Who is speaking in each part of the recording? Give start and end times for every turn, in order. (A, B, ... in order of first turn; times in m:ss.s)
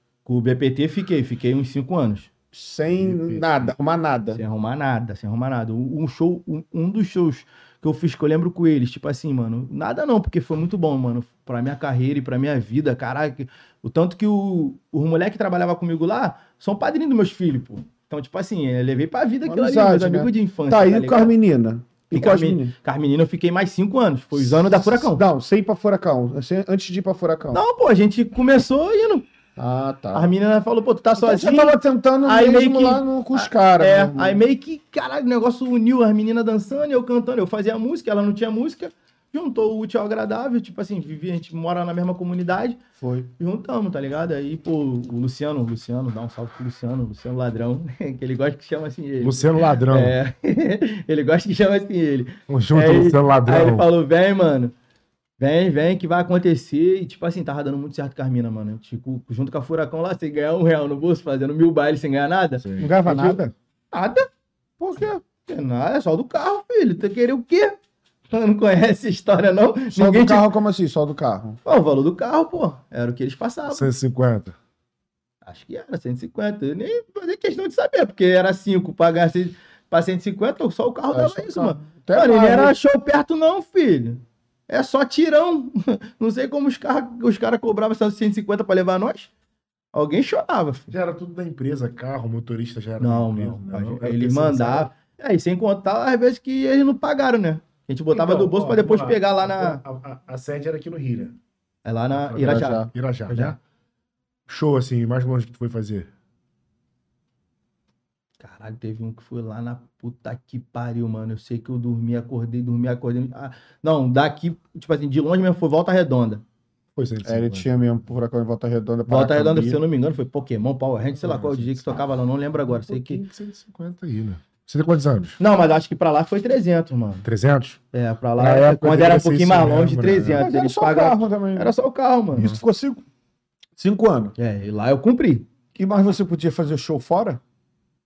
0:00.3-0:02.3 A
0:02.5-0:04.4 B
0:02.9-0:03.7 C
0:04.3-0:21.4 A
0:19.4-0:22.7 B
0:22.1-0:25.2 A
0:24.6-0:27.6 B
0:27.5-0:29.2 A
0:29.6-0:30.3 B
0:30.1-0:42.8 A
0:31.2-0:34.4 B
0:43.0-0:43.3 B
0:43.4-0:54.7 A
0:49.2-0:50.2 C
0:52.5-0:53.9 C
0:55.4-1:03.4 A
1:02.6-1:03.0 C
1:02.8-1:03.5 B
1:03.9-1:04.3 A
1:04.8-1:05.2 B
1:05.4-1:07.8 A
1:08.3-1:10.4 A
1:10.0-1:11.6 B
1:11.6-1:13.9 A
1:13.7-1:14.6 C
1:15.4-1:29.3 A
1:21.1-1:22.7 B
1:29.9-1:30.9 A
1:30.9-1:34.9 C
1:33.0-1:39.8 A
1:38.1-1:41.4 C
1:41.8-1:43.6 A
1:42.1-1:43.6 C
1:42.4-1:42.9 B
1:44.5-1:46.1 C
1:48.4-1:56.4 A
1:57.0-1:57.7 C
1:57.2-1:59.8 B
1:59.1-2:03.2 A
2:01.2-2:01.9 C
2:02.6-2:05.4 C
2:05.4-2:07.3 A
2:07.2-2:07.8 C
2:07.9-2:12.6 A
2:08.4-2:10.5 C
2:10.3-2:11.7 B
2:12.4-2:13.0 B
2:13.8-2:14.3 B
2:14.4-2:15.5 A
2:15.8-2:17.4 B